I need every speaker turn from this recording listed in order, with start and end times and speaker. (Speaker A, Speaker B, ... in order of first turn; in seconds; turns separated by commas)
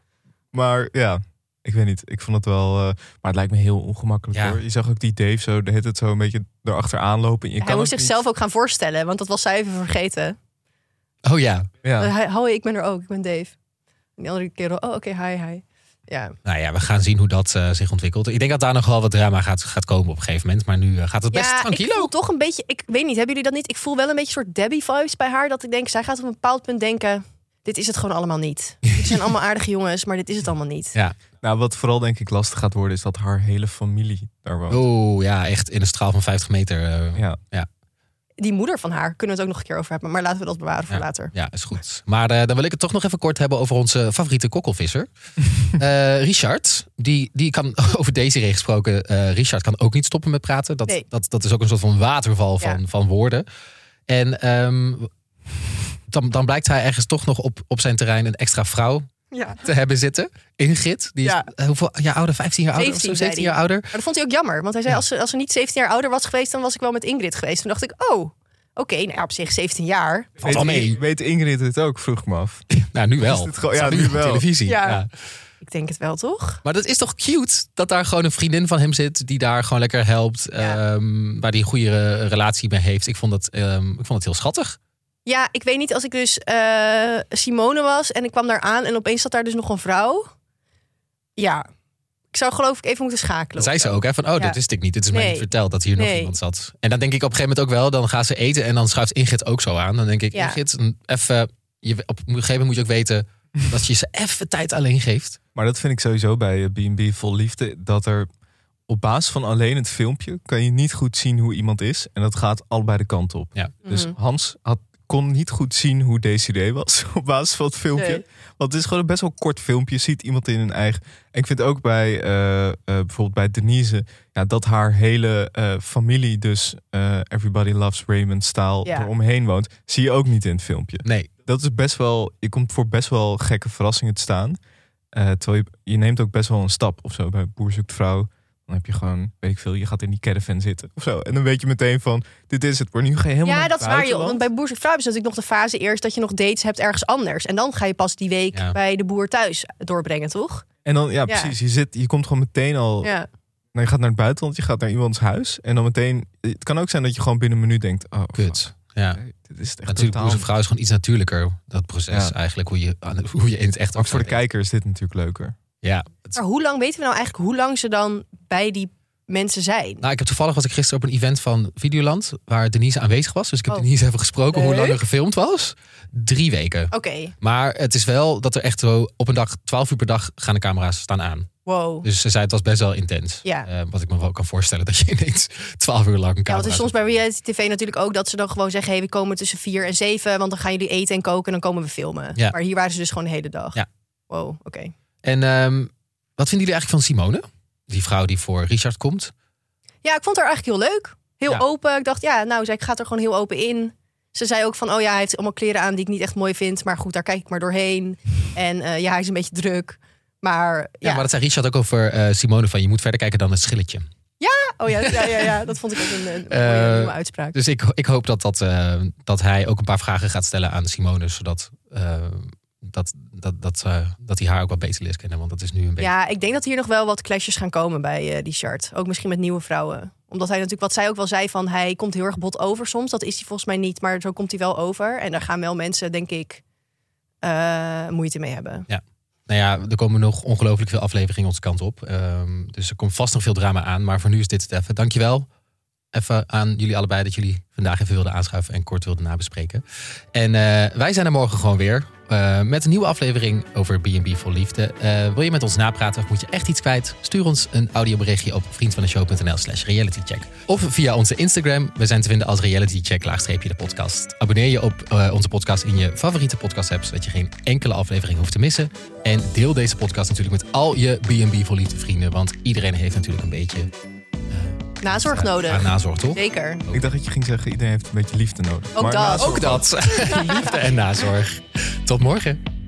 Speaker A: 0.5-8.2, Speaker B: 4.3-4.6, Speaker C: 7.6-10.3, Speaker B: 11.2-11.7, Speaker A: 11.8-12.1, Speaker C: 12.0-13.5, Speaker C: 14.2-16.3, Speaker B: 16.4-22.1, Speaker C: 21.3-30.9, Speaker A: 31.4-34.8, Speaker B: 34.7-37.7, Speaker C: 38.4-41.3, Speaker B: 40.9-45.1, Speaker B: 45.7-53.5, Speaker B: 54.1-55.1, Speaker B: 56.1-59.0, Speaker C: 59.3-59.6, Speaker B: 59.6-63.9, Speaker C: 61.2-61.5, Speaker C: 62.7-70.4, Speaker A: 70.4-72.6, Speaker B: 70.4-71.0, Speaker B: 72.8-75.1, Speaker A: 73.2-74.5, Speaker C: 74.7-75.0, Speaker C: 75.6-76.6, Speaker B: 76.6-84.8, Speaker C: 85.2-90.3, Speaker C: 91.4-91.7, Speaker C: 92.3-94.6, Speaker B: 93.5-105.4, Speaker C: 95.1-96.3, Speaker C: 100.3-100.6, Speaker A: 105.5-108.3, Speaker A: 108.9-134.6, Speaker C: 113.8-114.1, Speaker C: 117.9-118.2, Speaker C: 128.8-129.1, Speaker B: 131.0-131.3, Speaker A: 135.1-144.5, Speaker C: 143.4-150.6, Speaker A: 150.8-153.1, Speaker C: 151.3-151.6, Speaker A: 153.7-160.5, Speaker B: 158.3-159.2, Speaker B: 159.9-164.4, Speaker A: 162.1-162.3, Speaker A: 163.9-165.5, Speaker B: 165.8-166.4, Speaker C: 166.3-170.0, Speaker B: 170.0-181.5, Speaker C: 174.5-175.0, Speaker C: 176.9-177.3, Speaker C: 181.7-182.1, Speaker B: 182.0-187.2, Speaker C: 183.4-183.7, Speaker C: 186.5-194.9, Speaker B: 195.2-199.3, Speaker C: 200.0-211.3, Speaker B: 211.0-214.1, Speaker C: 214.4-217.6, Speaker B: 215.0-215.6, Speaker B: 216.5-226.1, Speaker C: 226.0-236.6, Speaker C: 237.4-238.9, Speaker B: 238.9-245.4, Speaker B: 246.1-249.8, Speaker B: 250.3-273.9, Speaker B: 274.5-277.1, Speaker C: 275.0-276.8, Speaker A: 276.9-279.9, Speaker C: 278.9-279.7, Speaker B: 279.3-282.6, Speaker C: 280.2-280.8